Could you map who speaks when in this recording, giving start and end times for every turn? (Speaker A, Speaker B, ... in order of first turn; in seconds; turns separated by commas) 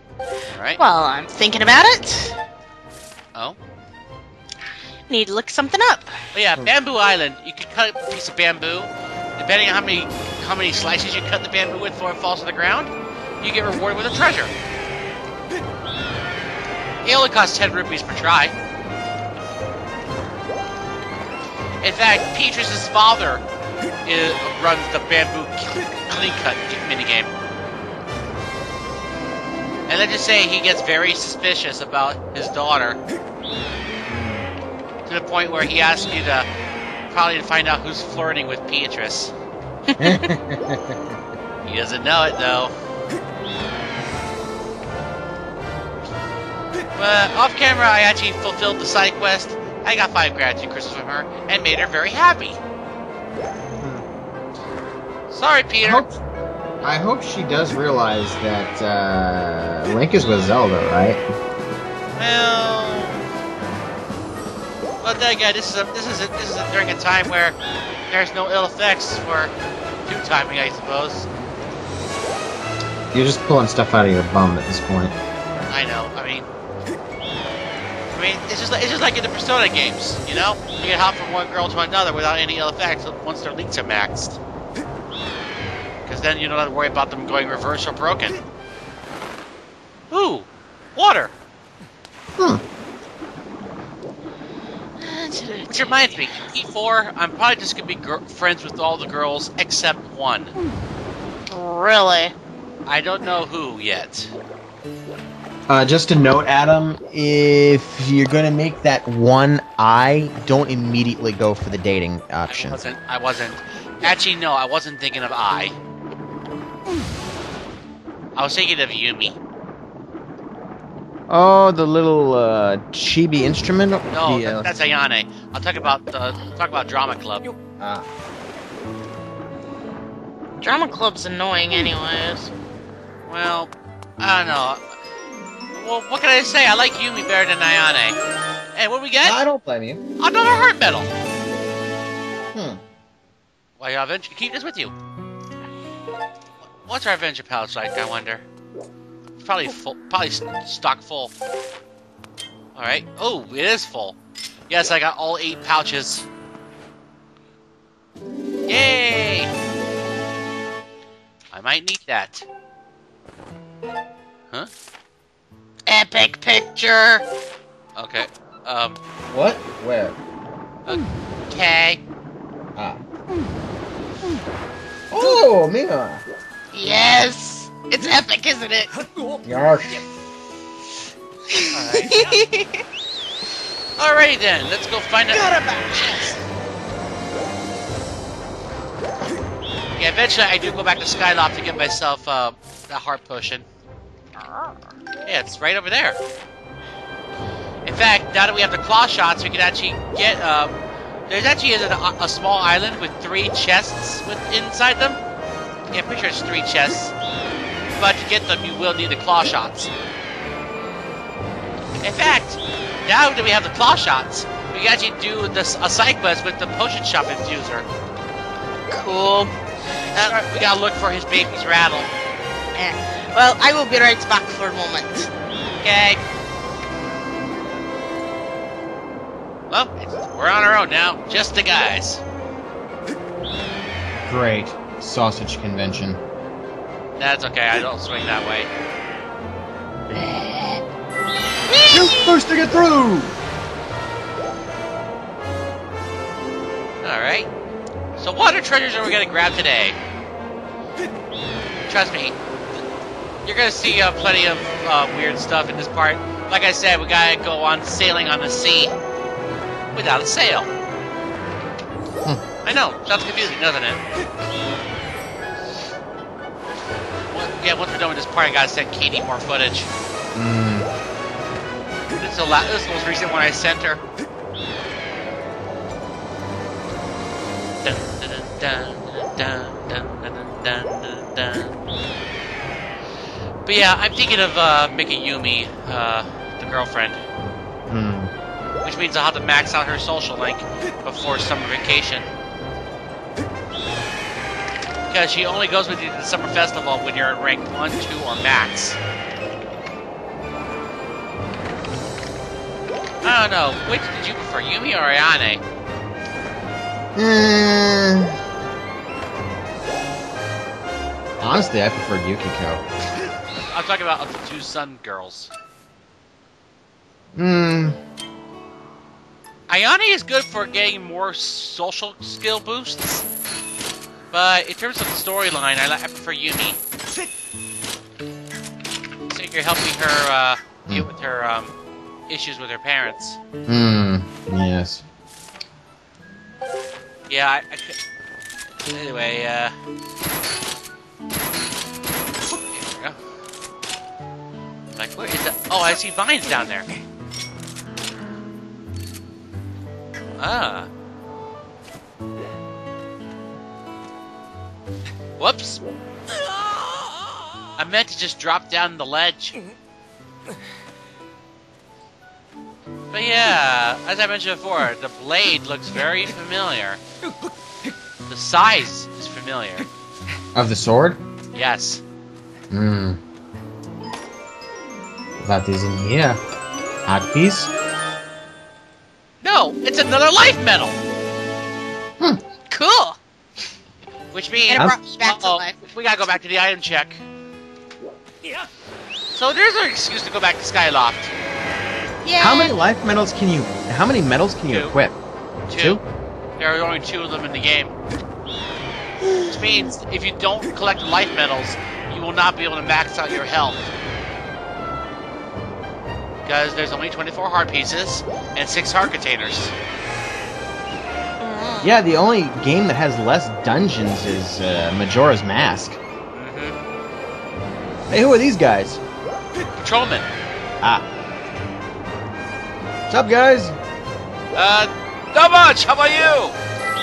Speaker A: 0.5-0.8, Speaker B: 0.8-2.4, Speaker B: 5.1-6.2, Speaker A: 6.3-14.5, Speaker A: 17.1-18.5, Speaker A: 21.8-23.4, Speaker A: 24.1-27.3, Speaker A: 29.9-33.0, Speaker C: 34.1-34.5, Speaker A: 35.1-36.5, Speaker A: 37.1-39.3, Speaker B: 39.9-40.3, Speaker C: 40.0-41.2, Speaker A: 41.6-42.7, Speaker A: 47.0-52.6, Speaker C: 53.8-54.0, Speaker A: 55.3-56.0, Speaker C: 55.8-56.2, Speaker C: 56.8-61.2, Speaker A: 62.2-63.2, Speaker A: 65.0-67.6, Speaker A: 68.1-69.5, Speaker A: 70.0-71.3, Speaker C: 73.1-75.2, Speaker A: 75.7-76.5, Speaker A: 78.1-84.4, Speaker A: 86.0-88.4, Speaker A: 90.1-91.3, Speaker C: 92.4-92.6, Speaker B: 95.0-96.1, Speaker A: 95.7-100.5, Speaker B: 101.5-102.3, Speaker A: 102.9-104.3, Speaker C: 105.7-112.8, Speaker A: 112.5-115.8, Speaker A: 118.3-119.4, Speaker C: 121.3-124.7, Speaker A: 124.1-127.5, Speaker C: 127.8-128.1, Speaker B: 130.6-132.5, Speaker A: 133.3-134.9, Speaker A: 135.8-138.2, Speaker A: 138.8-139.4, Speaker C: 139.2-140.0, Speaker A: 140.2-141.1, Speaker C: 142.5-142.8, Speaker A: 143.8-144.9, Speaker A: 146.7-148.4, Speaker A: 149.4-151.3, Speaker A: 152.8-154.2, Speaker A: 154.7-156.3, Speaker A: 158.7-159.5, Speaker A: 161.5-162.5, Speaker B: 165.9-167.2, Speaker A: 168.0-169.0, Speaker C: 169.3-170.2, Speaker A: 170.9-172.0, Speaker C: 172.8-173.0, Speaker C: 175.1-176.2, Speaker B: 176.7-178.9, Speaker C: 179.4-180.0, Speaker B: 181.5-182.8, Speaker A: 181.7-182.1, Speaker A: 184.0-186.3, Speaker B: 185.3-186.4, Speaker A: 190.0-193.7, Speaker B: 194.4-194.7, Speaker A: 195.2-196.2, Speaker A: 197.8-200.8, Speaker A: 201.3-205.2, Speaker A: 205.9-207.1, Speaker A: 208.0-209.9, Speaker A: 212.0-217.9, Speaker B: 218.9-219.5, Speaker A: 220.1-222.1, Speaker B: 222.8-225.3, Speaker A: 225.8-226.2, Speaker A: 229.7-232.2, Speaker C: 234.2-236.2, Speaker A: 237.2-238.7, Speaker C: 240.1-240.8, Speaker A: 241.7-242.3, Speaker C: 241.9-243.4, Speaker A: 247.0-247.5, Speaker A: 248.2-250.0, Speaker A: 251.9-252.8, Speaker A: 253.4-258.9, Speaker A: 259.9-260.7, Speaker A: 262.6-264.0, Speaker A: 267.3-269.9, Speaker C: 270.3-270.9, Speaker A: 272.1-274.0, Speaker A: 277.8-281.8, Speaker A: 283.7-287.2, Speaker C: 287.9-288.3, Speaker A: 288.8-292.3, Speaker A: 295.1-299.0, Speaker A: 303.2-305.6, Speaker C: 307.2-308.4, Speaker C: 311.4-312.9, Speaker A: 313.7-315.5, Speaker C: 317.4-318.0, Speaker A: 319.7-323.2, Speaker A: 324.3-326.8, Speaker A: 329.3-331.7, Speaker A: 332.3-333.4, Speaker C: 333.7-335.0, Speaker A: 337.3-338.0, Speaker A: 338.9-339.7, Speaker A: 342.7-343.2, Speaker A: 344.9-346.9, Speaker A: 350.4-350.9, Speaker A: 355.4-355.8, Speaker A: 357.8-359.6, Speaker A: 363.1-367.0, Speaker A: 368.3-369.9, Speaker C: 370.6-371.2, Speaker A: 371.6-372.0, Speaker C: 372.7-373.2, Speaker C: 375.4-376.4, Speaker C: 377.1-377.7, Speaker A: 379.4-381.0, Speaker B: 382.7-383.2, Speaker A: 384.3-387.2, Speaker B: 384.7-385.8, Speaker A: 389.3-391.3, Speaker B: 392.2-392.8, Speaker C: 392.4-395.2, Speaker A: 395.7-396.0, Speaker C: 395.7-396.0, Speaker A: 396.6-397.9, Speaker A: 399.5-403.9, Speaker A: 406.4-409.7, Speaker B: 411.4-411.9, Speaker C: 411.8-416.0, Speaker A: 416.3-416.8, Speaker C: 418.1-419.0, Speaker A: 419.8-420.3, Speaker C: 423.1-423.8, Speaker A: 424.5-426.6